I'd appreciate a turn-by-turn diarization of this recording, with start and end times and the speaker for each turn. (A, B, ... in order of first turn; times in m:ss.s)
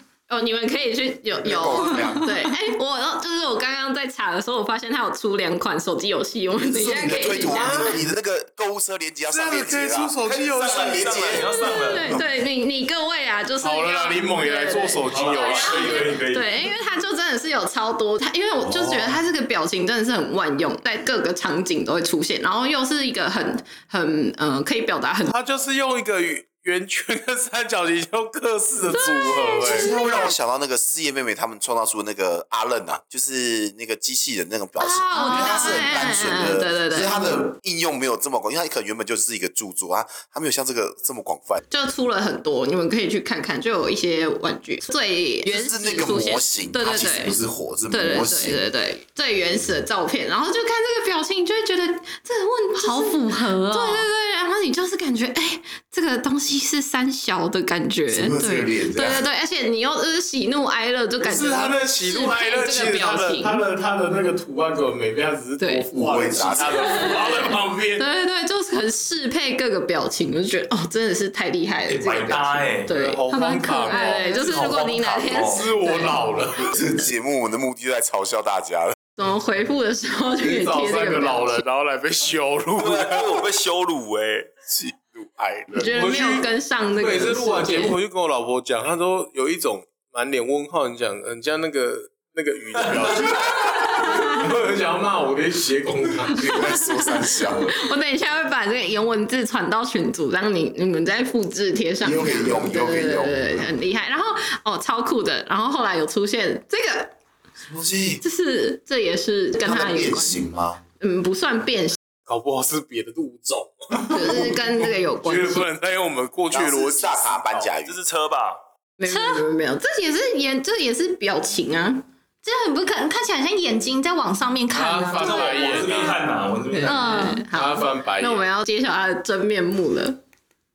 0:00.3-0:07.7 A
0:01.4-0:02.3 B
0:06.5-0:11.6 B
0:07.5-0:08.0 C
0:09.3-0:11.4 C
0:10.2-0:12.2 D
0:11.4-0:25.3 A
0:13.6-0:16.3 C
0:15.0-0:16.7 D
0:18.8-0:19.1 D
0:25.3-0:29.9 C
0:28.9-0:30.3 A
0:29.6-0:41.6 B
0:34.8-0:37.3 A
0:35.1-0:36.2 E
0:41.7-0:47.4 A
0:45.4-0:48.6 B
0:47.9-1:03.6 A
0:52.8-0:54.1 E
0:58.1-0:59.2 B
1:01.2-1:08.0 C
1:05.6-1:05.9 A
1:05.9-1:07.2 B
1:06.8-1:16.2 A
1:11.9-1:12.9 D
1:12.9-1:16.8 C
1:14.3-1:15.7 D
1:16.6-1:19.0 B
1:19.2-1:21.6 A
1:20.4-1:23.3 C
1:22.8-1:24.5 D
1:24.7-1:25.9 B
1:25.7-1:28.0 A
1:25.8-1:36.6 C
1:32.8-1:33.4 D
1:33.5-1:34.4 A
1:36.3-1:37.8 B
1:37.6-1:47.1 A
1:42.0-1:43.6 B
1:47.6-1:48.2 B
1:48.2-1:50.4 A
1:49.6-1:50.8 B
1:51.0-1:52.0 A
1:52.3-1:54.6 C
1:54.1-1:55.7 A
1:55.2-1:57.7 C
1:56.5-1:58.0 B
1:57.9-1:58.6 D
1:59.0-2:02.1 A
1:59.0-1:59.5 E
2:02.4-2:05.8 E
2:04.7-2:06.2 C
2:05.1-2:07.1 D
2:06.7-2:10.2 A
2:06.8-2:07.5 E
2:07.5-2:08.5 C